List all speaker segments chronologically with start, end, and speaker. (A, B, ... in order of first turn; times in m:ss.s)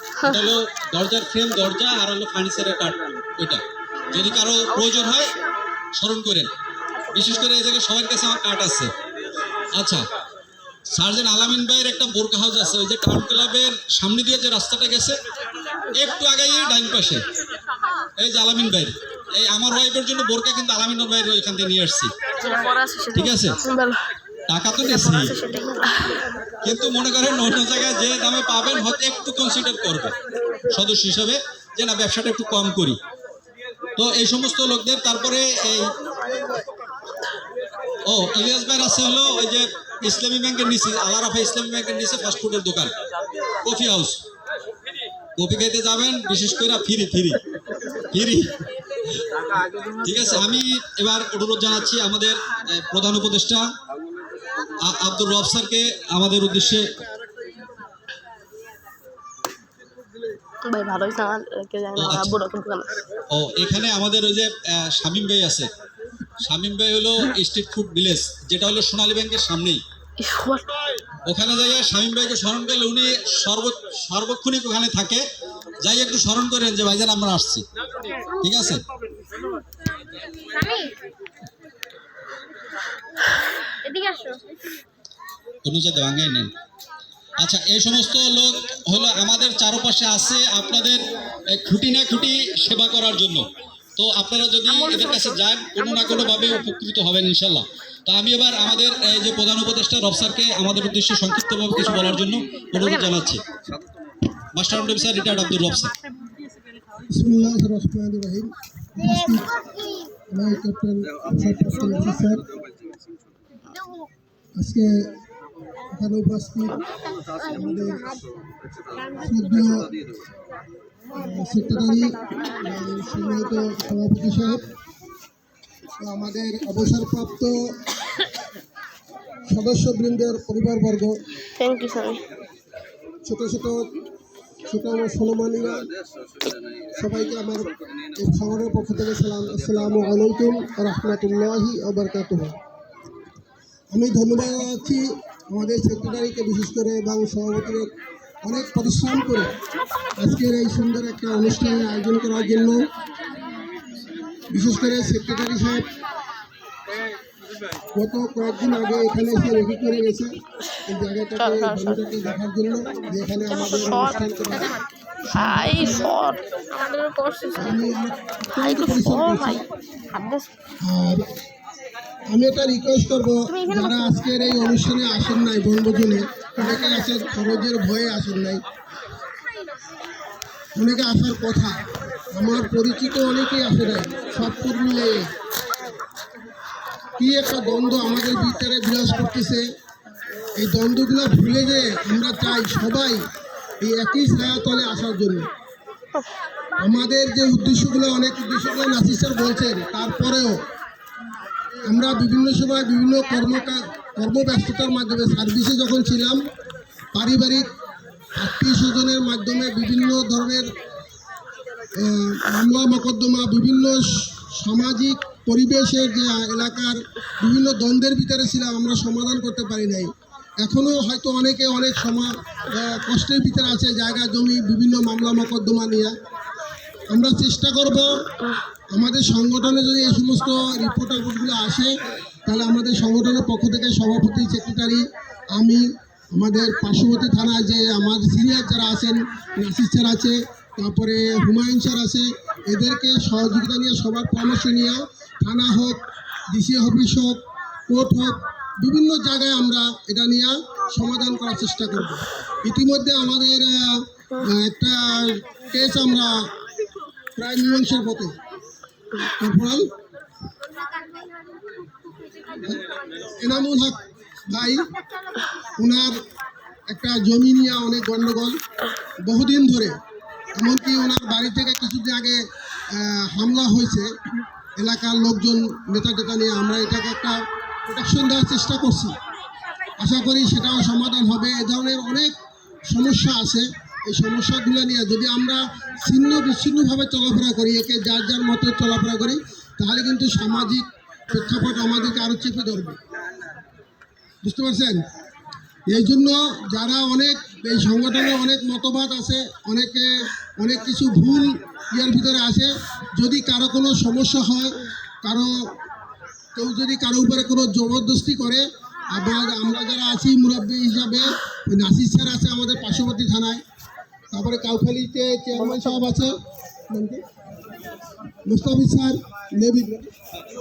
0:00.2-0:00.5 A
0:00.2-0:05.3 B
0:04.7-0:05.3 A
0:06.0-0:06.5 B
0:07.1-0:08.9 B
0:09.8-0:10.0 B
0:10.9-0:15.2 B
0:16.0-0:17.2 B
0:18.2-0:22.1 B
0:22.4-0:24.0 A
0:23.1-0:23.6 B
0:24.5-0:25.3 B
0:24.8-0:26.2 A
0:26.6-0:30.1 B
0:30.7-0:33.0 B
0:34.0-0:35.9 B
0:38.1-0:42.9 B
0:43.6-0:44.2 B
0:45.4-0:47.4 B
0:48.1-0:48.5 B
0:50.0-0:53.6 B
0:54.8-0:56.9 B
1:00.6-1:02.9 A
1:02.0-1:02.4 B
1:03.3-1:05.7 B
1:06.4-1:09.8 B
1:10.2-1:10.7 A
1:11.2-1:15.2 B
1:15.8-1:17.6 B
1:18.4-1:18.8 B
1:23.9-1:24.4 A
1:25.6-1:26.5 B
1:27.4-1:31.0 B
1:31.5-1:33.4 B
1:34.0-1:43.4 B
1:44.5-1:45.9 B
1:47.1-1:49.5 C
1:50.3-1:52.5 C
1:54.6-1:55.1 C
1:55.9-1:56.8 C
1:57.5-1:58.2 C
1:59.2-1:59.9 C
2:01.1-2:04.6 C
2:06.0-2:07.6 C
2:09.5-2:11.2 C
2:11.6-2:12.2 A
2:13.3-2:13.9 C
2:14.7-2:15.9 C
2:17.0-2:22.6 C
2:23.9-2:27.9 C
2:28.4-2:29.5 C
2:30.2-2:32.8 C
2:34.5-2:35.8 C
2:37.9-2:40.3 C
2:40.8-2:44.7 C
2:41.4-2:42.0 A
2:43.5-2:44.2 A
2:45.3-2:46.1 C
2:45.3-2:47.5 A
2:47.5-2:49.6 C
2:48.6-2:50.5 A
2:50.8-2:51.2 C
2:52.3-2:58.6 C
2:53.6-2:54.0 A
3:00.8-3:01.8 C
3:02.3-3:05.3 C
3:07.2-3:09.6 C
3:10.6-3:13.2 C
3:13.8-3:15.5 C
3:16.8-3:20.6 C
3:21.9-3:26.4 C
3:27.1-3:27.6 C
3:28.4-3:30.7 C
3:32.0-3:40.1 C
3:40.6-3:46.1 C
3:47.1-3:48.2 C
3:48.9-3:51.9 C
3:52.5-4:06.0 C
4:06.5-4:16.3 C
4:17.4-4:18.3 C
4:19.4-4:19.9 C
4:23.4-4:24.8 C
4:25.8-4:26.1 C
4:26.9-4:28.6 C
4:29.2-4:29.9 C
4:30.6-4:32.4 C
4:32.9-4:34.1 C
4:34.8-4:37.4 C
4:37.9-4:39.1 C
4:40.0-4:42.3 C
4:42.9-4:53.0 C
4:54.4-4:55.0 C
4:55.9-5:05.6 C
5:06.6-5:13.6 C
5:14.3-5:16.3 C
5:15.7-5:15.9 A
5:16.9-5:17.2 C
5:18.5-5:20.1 C